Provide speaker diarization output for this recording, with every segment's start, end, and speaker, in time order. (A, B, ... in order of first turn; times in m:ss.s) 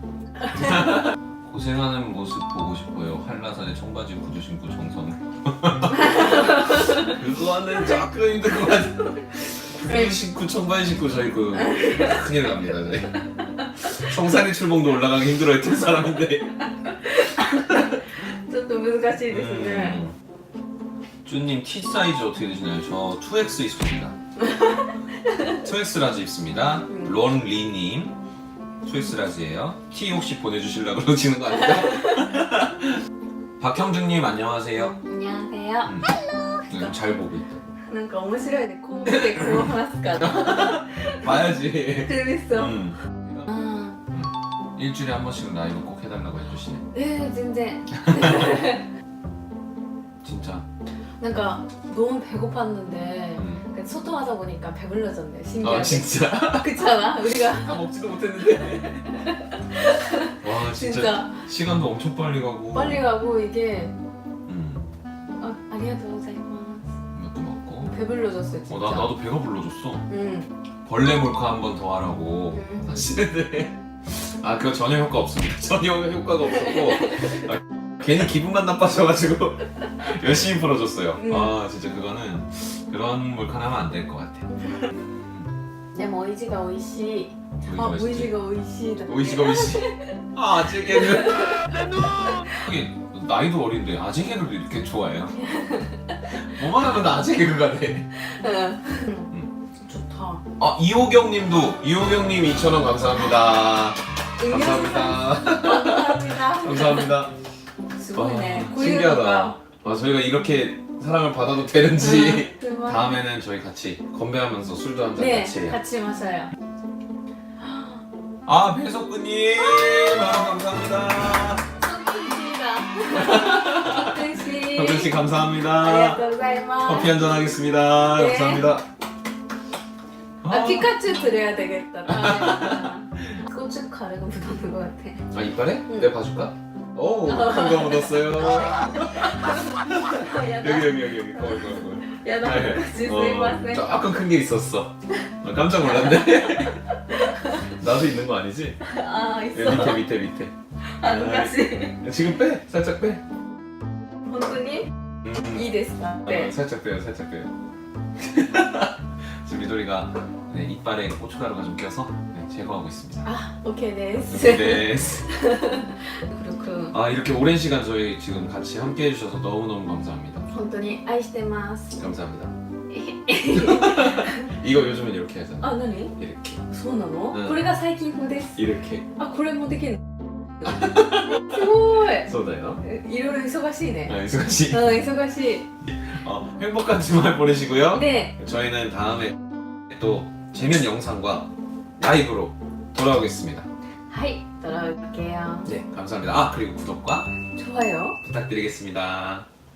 0:00.4-0:00.9 A
0:00.5-0:13.2 B
0:06.0-0:07.1 A
0:11.6-0:12.2 A
0:13.8-0:16.6 B
0:16.8-0:20.0 A
0:17.6-0:17.9 B
0:19.3-0:20.1 B
0:21.2-0:24.2 B
0:24.4-0:25.6 A
0:25.6-0:28.2 B
0:26.9-0:27.2 A
0:28.8-0:33.0 B
0:33.6-0:35.0 B
0:34.8-0:36.9 A
0:36.7-0:37.6 B
0:37.9-0:42.9 A
0:39.1-0:43.5 B
0:43.5-0:44.0 A
0:44.1-0:46.9 B
0:46.9-0:48.9 A
0:48.0-0:48.6 B
0:50.2-0:50.6 B
0:51.2-0:57.8 A
0:53.4-0:53.6 B
0:55.6-0:56.8 B
0:57.6-0:59.1 B
0:58.6-1:01.4 A
1:00.4-1:03.0 B
1:02.7-1:04.0 A
1:04.5-1:04.9 B
1:05.4-1:07.0 A
1:07.1-1:07.9 B
1:07.8-1:09.2 A
1:08.7-1:10.1 B
1:10.1-1:10.5 A
1:10.9-1:25.5 B
1:12.5-1:13.1 A
1:16.6-1:17.5 A
1:21.2-1:21.5 A
1:24.6-1:24.9 A
1:25.9-1:30.2 A
1:27.6-1:28.4 B
1:29.1-1:35.4 B
1:30.8-1:32.7 A
1:35.4-1:36.4 A
1:36.3-1:38.1 B
1:38.2-1:40.4 A
1:40.6-1:47.3 B
1:44.4-1:47.2 A
1:48.0-1:49.6 A
1:48.2-1:55.8 B
1:52.0-1:53.2 A
1:55.2-1:56.5 A
1:57.6-1:58.0 A
1:58.5-2:01.7 B
2:01.8-2:05.2 A
2:03.1-2:06.2 B
2:05.8-2:07.2 A
2:06.8-2:08.9 B
2:08.1-2:08.7 A
2:10.4-2:11.0 B
2:10.5-2:15.3 A
2:12.1-2:13.4 B
2:15.3-2:26.8 B
2:15.9-2:16.1 A
2:17.2-2:23.9 A
2:25.8-2:27.7 A
2:27.8-2:28.9 B
2:28.8-2:30.0 A
2:29.5-2:30.5 B
2:30.9-2:32.0 A
2:31.0-2:33.2 B
2:34.3-2:36.5 A
2:36.3-2:37.5 B
2:38.2-2:43.3 B
2:43.2-2:47.0 A
2:44.3-2:45.3 B
2:46.9-2:50.5 B
2:50.5-2:52.0 A
2:51.9-2:52.5 B
2:52.9-2:54.6 A
2:53.5-2:56.6 B
2:55.6-2:56.2 A
2:56.7-2:58.6 A
2:57.3-2:57.6 B
2:58.6-2:59.1 B
2:59.2-3:00.0 A
3:00.6-3:02.8 B
3:01.4-3:04.2 A
3:04.1-3:05.0 B
3:04.7-3:05.7 A
3:05.8-3:13.7 B
3:07.9-3:08.4 A
3:14.1-3:15.7 A
3:15.6-3:17.3 B
3:17.6-3:18.2 A
3:18.2-3:19.5 B